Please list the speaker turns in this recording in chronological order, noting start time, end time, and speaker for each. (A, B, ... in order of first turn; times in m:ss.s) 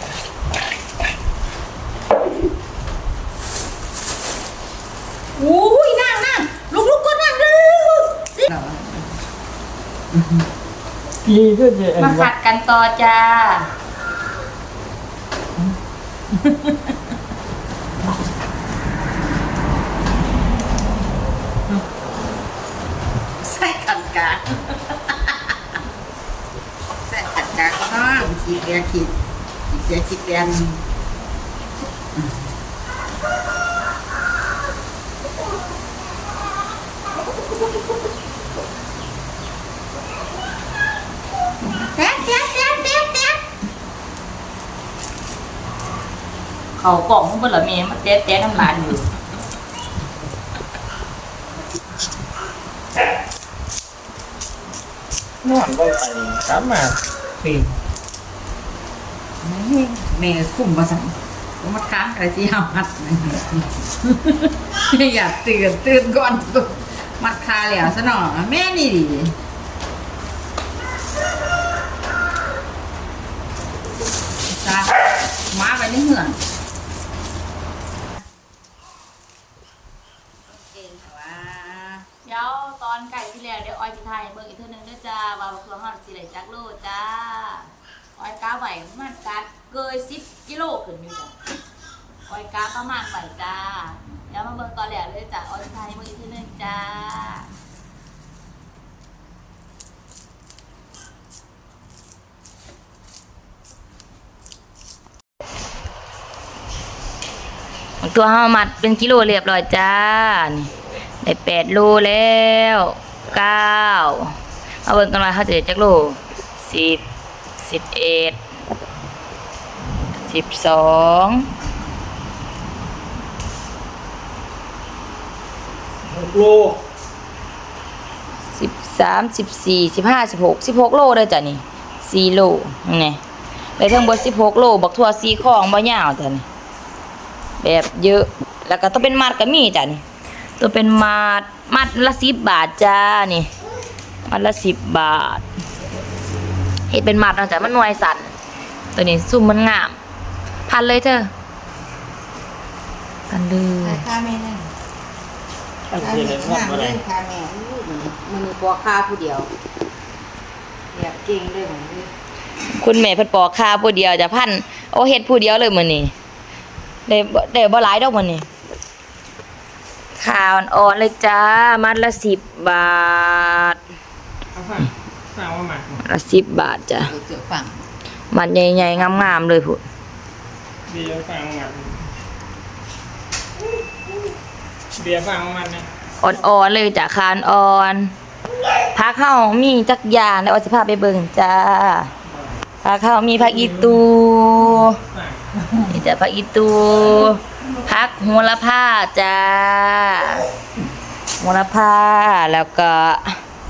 0:05.4-0:09.1 A
0:10.1-0:10.5 A
0:11.2-0:12.3 B
0:12.0-0:13.7 C
0:16.3-0:16.9 A
0:23.4-0:25.5 A
0:27.1-0:29.1 A
0:29.7-0:30.8 A
0:41.8-0:43.4 A
0:46.8-0:49.1 C
0:55.4-0:57.7 B
0:59.4-1:09.4 A
1:14.5-1:15.0 A
1:15.5-1:16.4 A
1:20.5-1:22.0 A
1:22.2-1:31.3 C
1:32.3-1:37.5 C
1:48.0-1:50.7 C
1:51.2-1:54.3 C
1:54.8-1:57.0 C
1:57.6-1:58.4 C
2:00.3-2:01.5 C
2:06.1-2:06.8 B
2:08.6-2:13.2 C
2:13.8-2:16.4 C
2:17.6-2:20.0 C
2:20.6-2:23.5 C
2:24.3-2:25.4 C
2:26.9-2:28.3 C
2:29.0-2:30.0 C
2:30.7-2:31.3 C
2:33.3-2:34.0 C
2:33.8-2:34.7 A
2:35.9-2:37.0 B
2:36.0-2:39.5 A
2:40.9-2:42.1 A
2:42.8-2:46.1 C
2:47.1-2:48.4 C
2:50.2-2:53.8 C
2:54.5-2:56.0 B
2:56.0-2:57.1 C
2:57.0-2:57.8 A
2:58.3-2:59.8 C
3:00.9-3:02.0 B
3:05.0-3:05.9 B
3:06.2-3:08.1 C
3:08.9-3:12.1 C
3:12.8-3:15.0 C
3:13.4-3:14.0 B
3:14.8-3:15.5 B
3:15.8-3:20.5 C
3:21.4-3:23.4 C